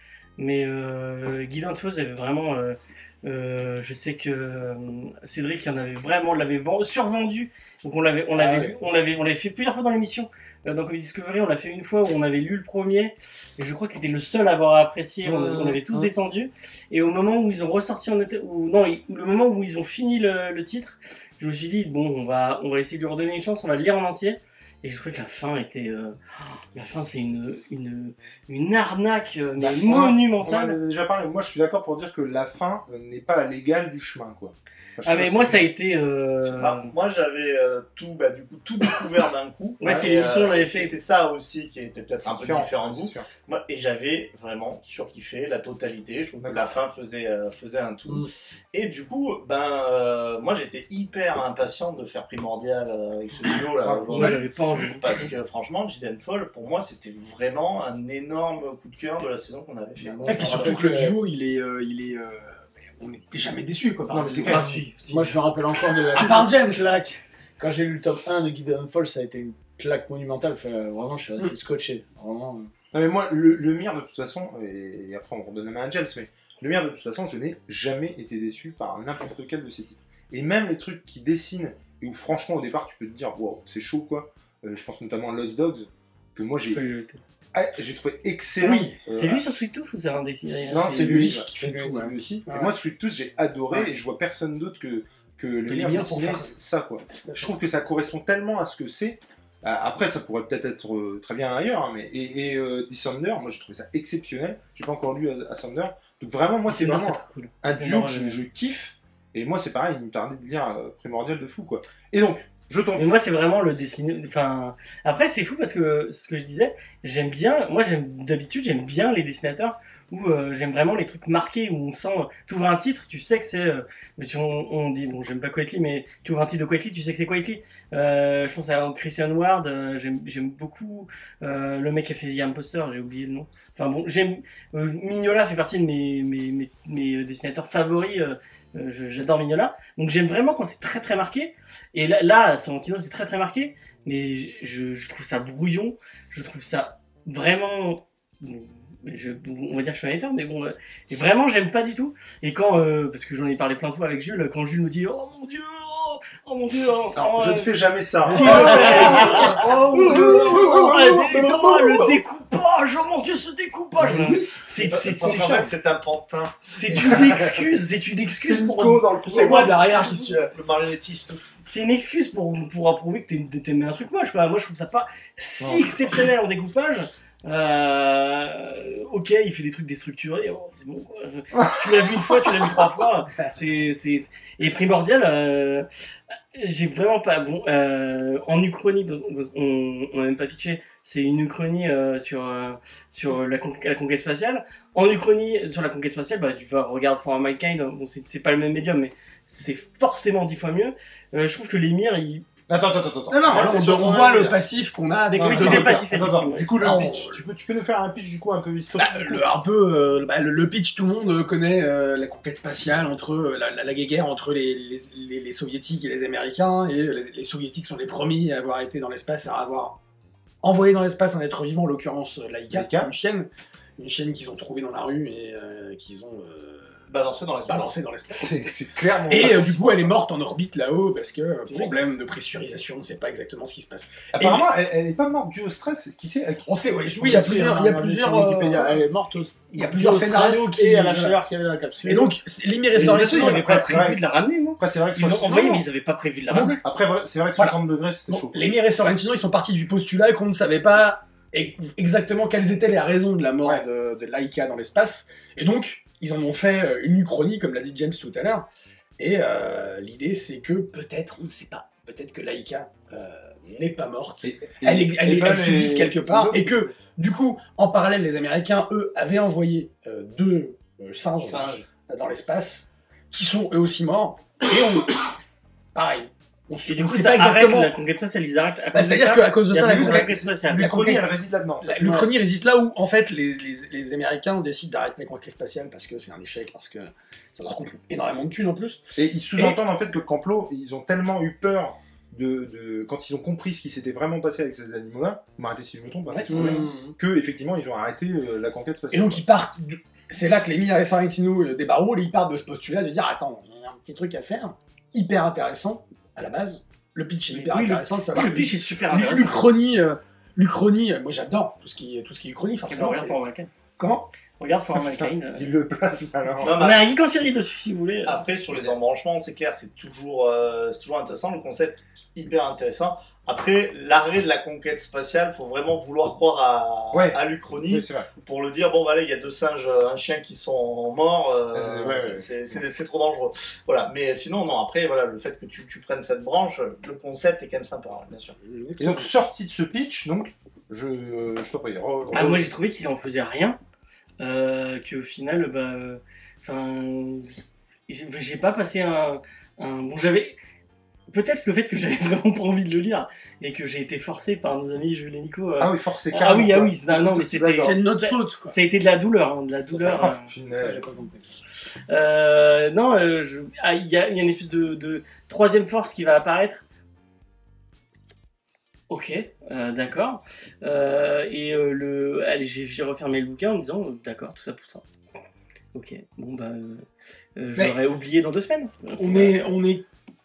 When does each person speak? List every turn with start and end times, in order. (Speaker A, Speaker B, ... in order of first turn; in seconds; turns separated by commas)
Speaker A: 0.4-30.8, Speaker B: 8.3-8.8, Speaker B: 15.2-16.1, Speaker C: 29.6-35.6, Speaker A: 35.0-36.9, Speaker D: 36.4-60.9, Speaker A: 39.8-40.9, Speaker C: 42.2-43.3, Speaker C: 46.4-46.7, Speaker C: 53.9-54.3, Speaker A: 54.1-55.2, Speaker B: 60.0-61.2, Speaker E: 60.2-65.0, Speaker C: 64.1-64.9, Speaker D: 64.4-64.7, Speaker B: 65.0-72.7, Speaker E: 66.1-67.2, Speaker C: 72.9-86.8, Speaker A: 86.7-87.2, Speaker C: 87.5-89.5, Speaker E: 88.6-89.0, Speaker A: 89.1-91.2, Speaker E: 90.5-92.7, Speaker C: 90.6-113.0, Speaker E: 95.7-96.5, Speaker E: 97.2-97.5, Speaker A: 106.7-108.4, Speaker A: 112.9-157.7, Speaker C: 157.2-162.1, Speaker A: 158.2-165.6, Speaker E: 158.3-162.2, Speaker D: 158.9-159.8, Speaker E: 164.0-164.5, Speaker D: 164.9-166.7, Speaker C: 165.1-165.7, Speaker A: 166.7-168.9, Speaker E: 167.1-167.4, Speaker E: 168.3-170.5, Speaker C: 168.4-169.6, Speaker D: 169.3-171.6, Speaker A: 171.7-185.8, Speaker C: 175.6-176.0, Speaker C: 181.5-182.5, Speaker A: 186.5-202.4, Speaker C: 202.7-203.7, Speaker E: 203.3-207.4, Speaker D: 203.5-204.6, Speaker A: 205.3-206.8, Speaker C: 205.3-209.5, Speaker E: 208.9-220.0, Speaker E: 220.6-227.0, Speaker C: 222.7-223.1, Speaker D: 227.1-227.9, Speaker E: 227.7-228.7, Speaker C: 228.4-230.2, Speaker E: 229.3-234.2, Speaker C: 234.3-238.9, Speaker A: 234.4-234.6, Speaker E: 236.6-239.0, Speaker B: 237.2-242.3, Speaker E: 239.7-241.4, Speaker E: 242.0-243.9, Speaker A: 242.9-246.8, Speaker C: 242.9-244.2, Speaker C: 244.8-245.8, Speaker E: 246.5-246.8, Speaker C: 246.8-248.8, Speaker E: 247.6-258.6, Speaker E: 259.2-275.3, Speaker C: 264.4-266.9, Speaker D: 271.4-271.8, Speaker E: 275.9-277.9, Speaker A: 276.8-281.2, Speaker E: 278.9-280.3, Speaker C: 279.7-282.3, Speaker E: 280.8-281.2, Speaker E: 281.8-289.8, Speaker C: 289.1-299.4, Speaker E: 296.3-296.9, Speaker B: 296.5-297.1, Speaker E: 299.1-313.4, Speaker A: 307.5-309.6, Speaker A: 312.9-313.7, Speaker E: 314.0-314.3, Speaker A: 314.6-315.7, Speaker C: 314.9-316.8, Speaker D: 316.6-317.1, Speaker A: 316.6-318.4, Speaker D: 318.2-338.6, Speaker C: 327.1-328.3, Speaker C: 331.7-332.5, Speaker B: 338.6-339.3, Speaker C: 339.0-342.7, Speaker A: 342.3-343.8, Speaker A: 344.4-350.6, Speaker A: 351.3-360.5, Speaker C: 355.8-358.0, Speaker E: 357.8-358.8, Speaker B: 360.0-361.5, Speaker C: 360.0-361.1, Speaker A: 362.1-366.8, Speaker A: 369.1-375.0, Speaker A: 375.9-379.6, Speaker E: 379.2-380.1